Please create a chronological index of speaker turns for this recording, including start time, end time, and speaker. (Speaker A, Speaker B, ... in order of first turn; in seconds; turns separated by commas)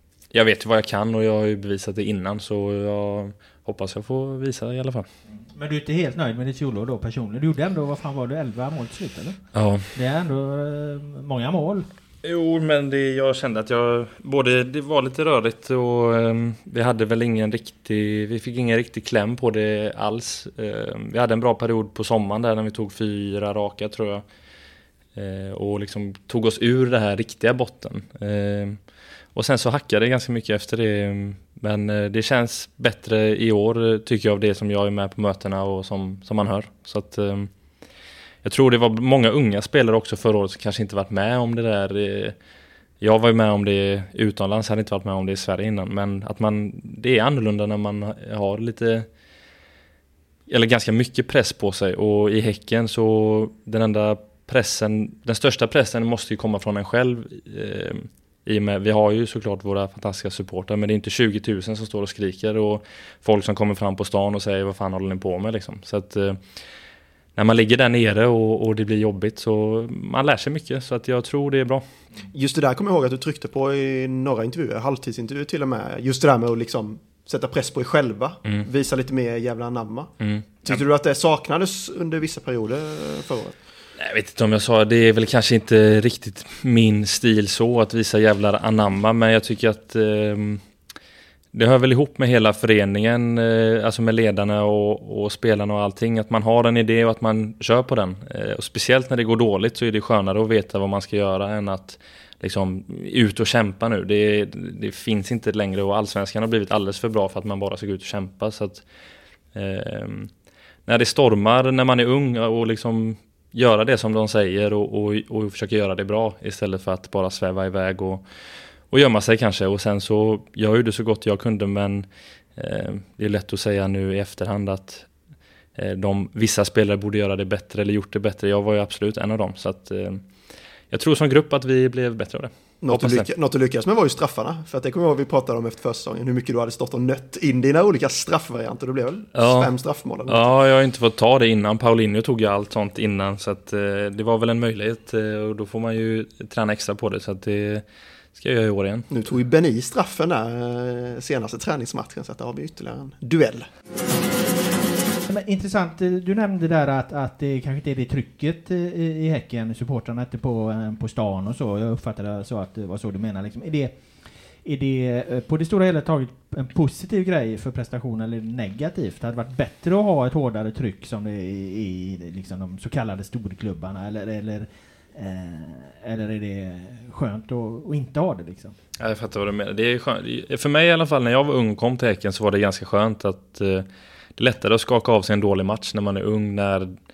Speaker A: 0.3-5.1, Speaker B: 5.5-9.4, Speaker A: 9.5-9.9, Speaker B: 9.9-11.9, Speaker A: 12.2-24.2, Speaker A: 25.1-28.8, Speaker A: 29.3-37.5, Speaker A: 38.4-42.4, Speaker A: 43.0-49.1, Speaker A: 50.5-66.4, Speaker A: 67.3-71.8, Speaker C: 72.3-80.1, Speaker A: 80.2-80.8, Speaker C: 80.6-83.6, Speaker A: 84.0-90.6, Speaker A: 91.5-108.8, Speaker A: 109.5-110.3, Speaker A: 110.8-118.2, Speaker A: 118.9-125.1, Speaker A: 125.8-130.2, Speaker A: 130.9-133.3, Speaker C: 132.8-140.4, Speaker A: 139.3-139.7, Speaker A: 140.3-149.1, Speaker C: 149.1-153.7, Speaker B: 155.3-164.0, Speaker B: 164.6-178.7, Speaker A: 179.0-183.8, Speaker A: 184.4-186.9